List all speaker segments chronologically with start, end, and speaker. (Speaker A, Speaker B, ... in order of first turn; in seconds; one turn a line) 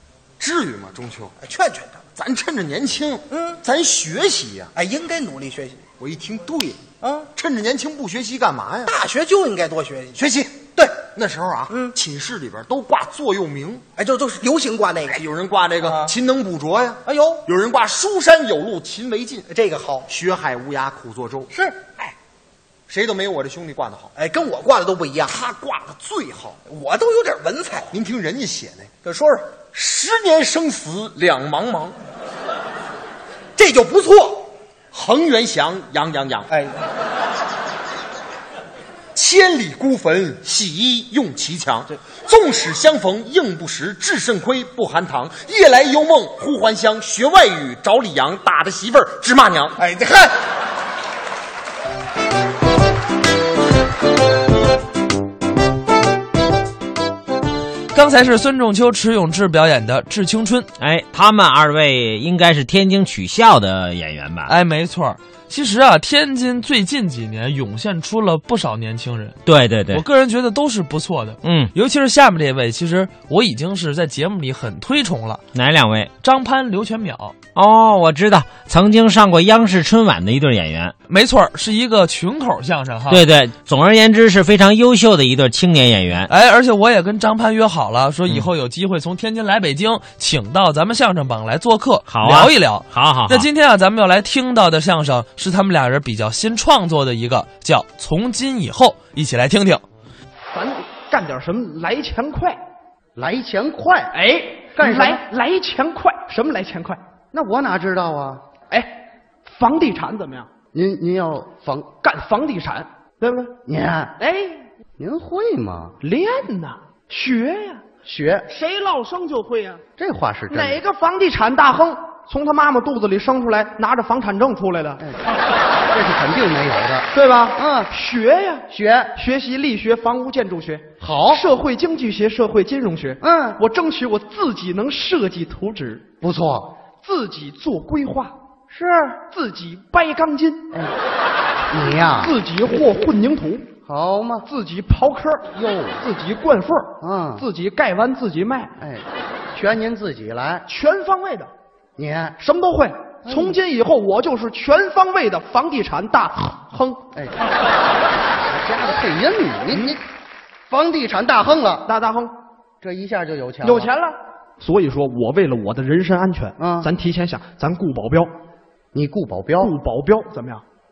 Speaker A: 0.4-1.3
Speaker B: 1.4-2.0
Speaker A: 2.1-4.7
Speaker B: 3.3-3.6
Speaker B: 4.7-5.8
Speaker A: 6.0-8.9
Speaker B: 7.0-7.3
Speaker B: 8.8-10.2
Speaker A: 10.2-13.8
Speaker B: 10.7-11.0
Speaker B: 11.7-11.9
Speaker B: 13.9-15.2
Speaker A: 15.1-19.5
Speaker B: 15.8-16.1
Speaker B: 17.0-17.4
Speaker B: 19.5-20.1
Speaker A: 20.1-21.5
Speaker B: 21.5-22.1
Speaker A: 22.9-24.1
Speaker B: 24.1-25.4
Speaker A: 25.2-26.6
Speaker B: 26.7-27.9
Speaker A: 27.9-28.9
Speaker B: 29.0-29.6
Speaker A: 29.7-31.9
Speaker B: 33.5-34.5
Speaker A: 34.9-36.5
Speaker B: 36.5-36.8
Speaker A: 39.1-49.8
Speaker B: 49.8-50.3
Speaker C: 57.9-60.7
Speaker D: 60.8-64.5
Speaker C: 64.5-69.4
Speaker D: 69.5-70.0
Speaker C: 69.9-75.4
Speaker D: 71.4-71.7
Speaker D: 75.5-76.1
Speaker C: 76.2-77.3
Speaker D: 77.5-80.9
Speaker C: 81.1-83.2
Speaker D: 83.1-86.3
Speaker C: 86.3-99.8
Speaker D: 92.1-93.5
Speaker E: 100.5-102.6
Speaker F: 103.2-104.1
Speaker E: 104.1-107.0
Speaker F: 104.8-105.2
Speaker F: 107.3-108.4
Speaker E: 108.7-110.5
Speaker F: 110.7-111.9
Speaker E: 112.0-113.5
Speaker F: 113.7-114.2
Speaker E: 114.2-114.6
Speaker F: 115.0-116.0
Speaker E: 116.0-117.8
Speaker F: 118.0-118.5
Speaker E: 118.5-119.8
Speaker F: 120.0-120.8
Speaker E: 120.5-125.0
Speaker F: 125.0-125.2
Speaker F: 125.9-127.9
Speaker E: 127.1-136.0
Speaker F: 128.7-129.1
Speaker F: 131.0-131.4
Speaker F: 133.2-133.6
Speaker F: 136.2-136.7
Speaker E: 137.0-140.7
Speaker F: 141.7-142.3
Speaker E: 142.2-143.7
Speaker F: 143.8-144.5
Speaker E: 144.4-145.5
Speaker F: 145.5-146.0
Speaker E: 146.0-148.7
Speaker F: 147.0-147.4
Speaker F: 148.8-150.6
Speaker E: 150.7-151.5
Speaker F: 152.0-152.4
Speaker E: 152.4-157.0
Speaker F: 153.2-153.6
Speaker F: 158.4-160.0
Speaker F: 160.7-161.8
Speaker E: 161.8-162.3
Speaker F: 162.8-163.9
Speaker E: 163.6-168.3
Speaker F: 166.6-166.9
Speaker F: 168.9-169.7
Speaker E: 169.6-170.6